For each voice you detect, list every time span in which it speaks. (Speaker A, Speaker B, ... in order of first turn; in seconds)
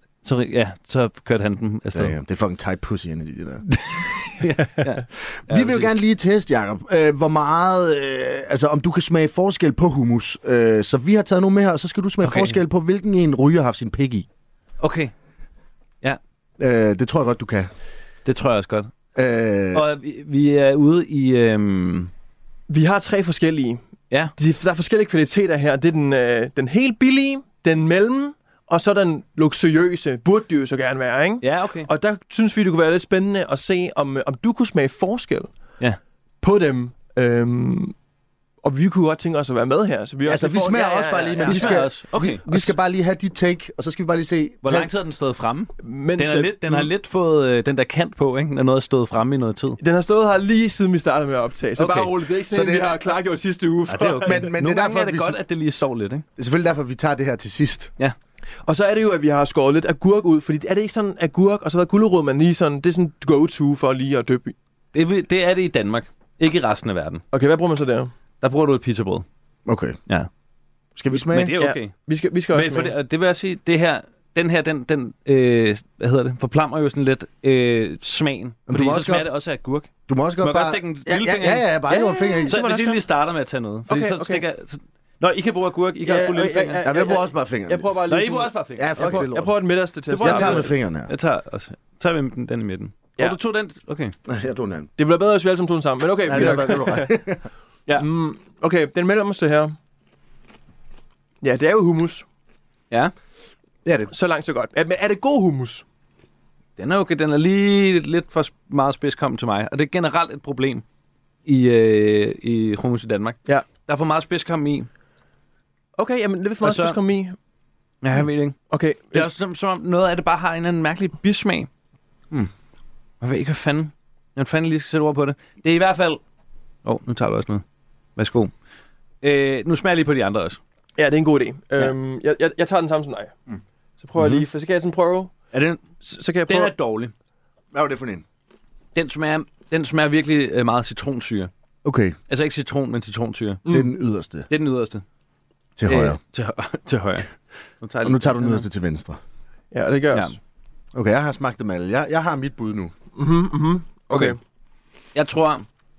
Speaker A: 0.2-2.1, 3.8-5.9, 12.2-12.6, 14.8-15.1, 18.2-18.9, 19.7-22.1, 31.4-31.9, 41.4-42.7, 44.6-49.8, 51.8-52.1, 53.9-56.2, 64.9-67.2, 68.4-69.2, 71.1-71.9, 72.5-79.9, 80.4-81.7, 82.5-86.8, 88.1-89.2, 90.1-94.1, 106.8-110.8, 111.5-114.9, 116.6-117.0, 118.0-118.6, 119.1-121.7, 123.2-126.2, 126.8-127.6, 128.2-128.5, 129.2-130.6, 134.2-134.4, 135.5-135.8, 136.4-137.1, 138.9-141.5, 142.3-143.6, 144.5-145.0, 145.9-148.7, 150.1-150.3, 155.1-155.7
Speaker B: 1.9-3.6, 5.5-14.3, 16.6-17.7, 19.1-19.9, 40.2-44.9, 52.5-53.1, 54.2-55.4, 56.4-57.9, 69.7-70.0, 71.0-71.5, 78.7-79.3, 80.1-82.5, 86.8-88.0, 88.8-89.5, 90.2-91.1, 94.2-94.9, 96.2-97.4, 103.8-104.1, 137.7-138.2, 141.8-142.2, 143.7-144.5, 145.8-146.2, 148.0-149.2, 150.9-152.9
Speaker C: 22.7-23.8, 24.4-35.5, 36.4-37.9, 38.6-41.9, 45.8-46.9, 49.8-54.5, 58.6-64.5, 67.3-68.1, 71.6-72.9, 81.9-83.0, 83.9-84.4, 86.0-90.7, 95.0-97.2, 97.9-99.8, 101.4-102.2, 104.1-105.8, 116.0-117.3, 118.7-119.3, 131.0-133.3, 134.0-135.3, 136.0-136.7, 143.7-143.9, 149.7-150.3, 153.2-154.4